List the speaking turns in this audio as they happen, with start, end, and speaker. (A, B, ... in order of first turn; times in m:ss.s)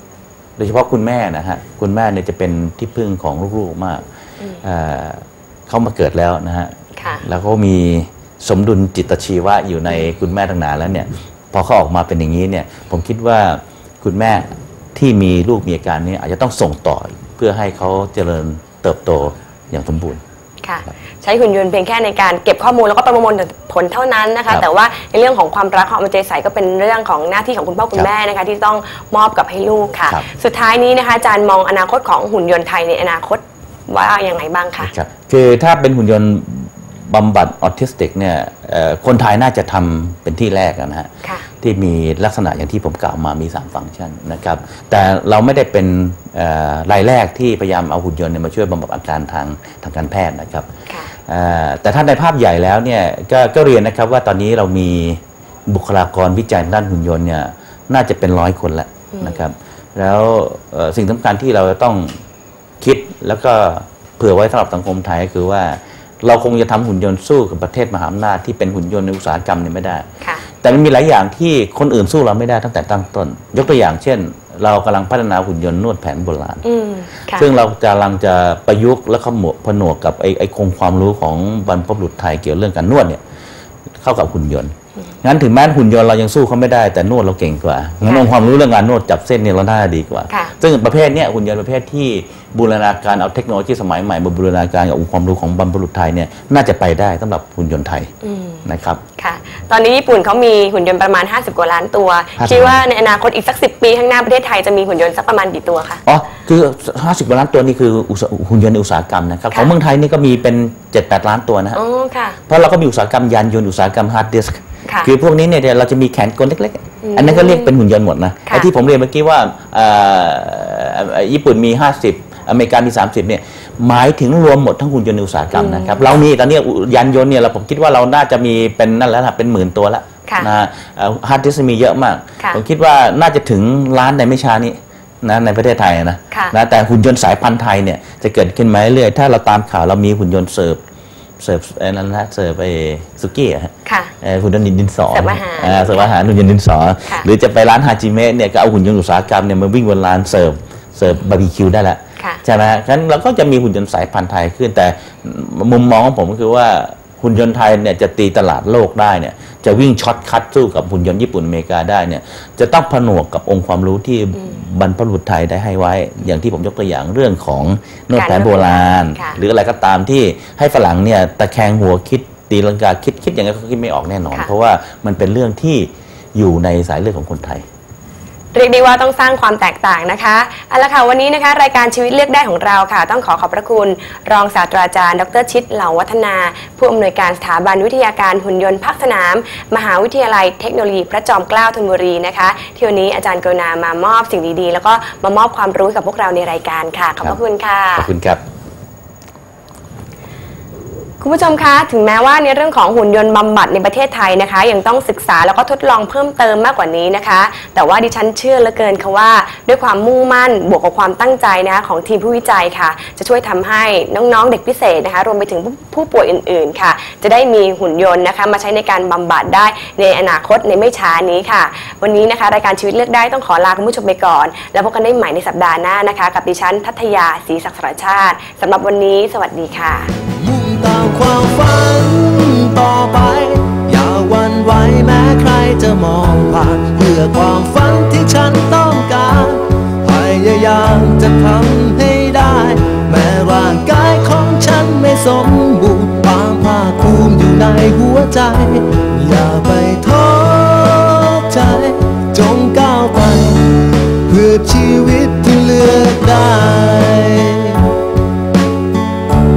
0:00.6-0:04.0 A
0:04.6-0:06.7 A
0:07.0-0:07.2 B
0:07.2-0:20.2 A
0:20.6-0:34.9 B
0:34.8-0:41.1 A
0:41.6-0:50.7 A
0:51.3-1:02.1 A
0:59.1-0:59.4 B
1:02.8-1:10.0 A
1:10.6-1:16.6 A
1:16.6-1:17.5 B
1:17.3-1:23.2 A
1:24.0-1:38.1 A
1:38.2-1:38.6 B
1:38.6-1:39.0 A
1:39.2-1:46.0 B
1:42.4-1:42.8 A
1:46.0-1:51.8 A
1:51.7-1:52.4 B
1:52.5-2:20.8 A
1:57.0-1:57.7 B
2:05.5-2:06.2 B
2:21.4-2:57.6 A
2:23.8-2:24.1 B
2:25.1-2:26.1 B
2:48.1-2:49.4 B
2:58.5-3:18.1 B
3:18.0-3:18.4 A
3:21.2-3:50.1 B
3:50.4-4:17.9 C